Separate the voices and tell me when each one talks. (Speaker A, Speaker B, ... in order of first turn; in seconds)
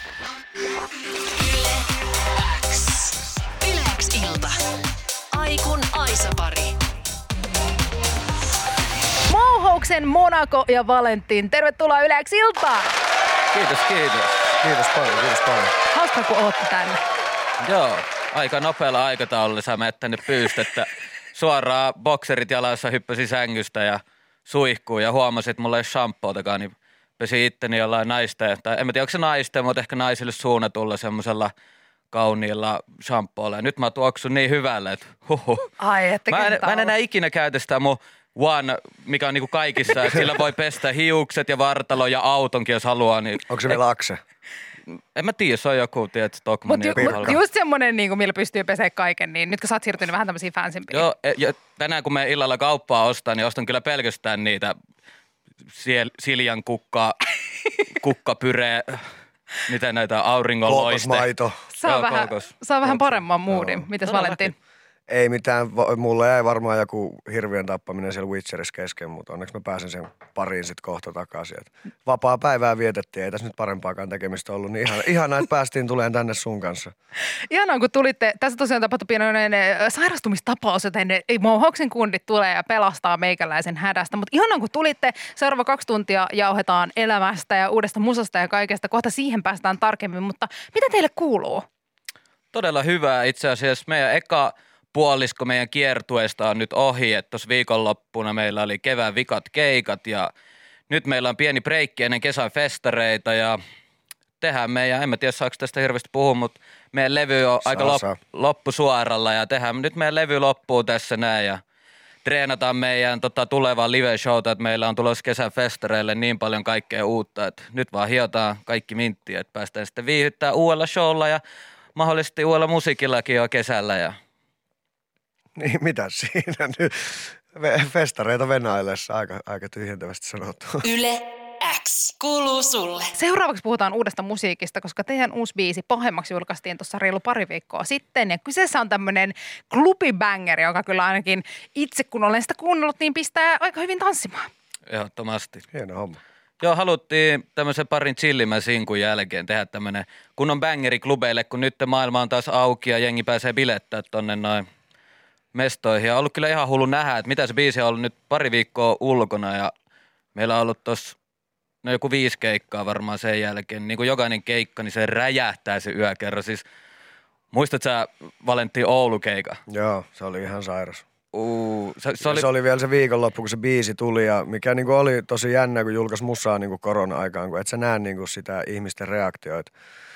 Speaker A: 1.3-4.5, 5.3-6.8, 130.8-133.1
Speaker B: 9.3-12.9, 15.9-17.0, 35.8-36.9, 46.7-51.1, 61.8-64.5, 77.5-91.7, 133.1-144.5
Speaker C: 13.5-14.6, 17.6-31.5, 32.1-35.7, 36.3-43.8, 44.9-47.4, 50.9-54.7, 55.7-57.2, 57.8-59.1, 59.6-61.3, 61.8-63.2, 64.1-64.3, 92.5-100.3, 100.9-103.6, 104.4-111.6, 112.2-121.4, 121.9-124.2, 144.9-145.7, 146.6-154.6, 155.5-159.7, 160.3-161.2, 161.8-166.6, 167.5-169.6, 171.3-172.4
Speaker D: 14.6-15.7, 43.5-44.2, 47.0-47.4, 60.6-61.6, 63.5-63.8, 65.1-76.9, 107.7-108.2, 125.6-130.8, 145.7-146.2, 169.7-171.0, 172.2-179.7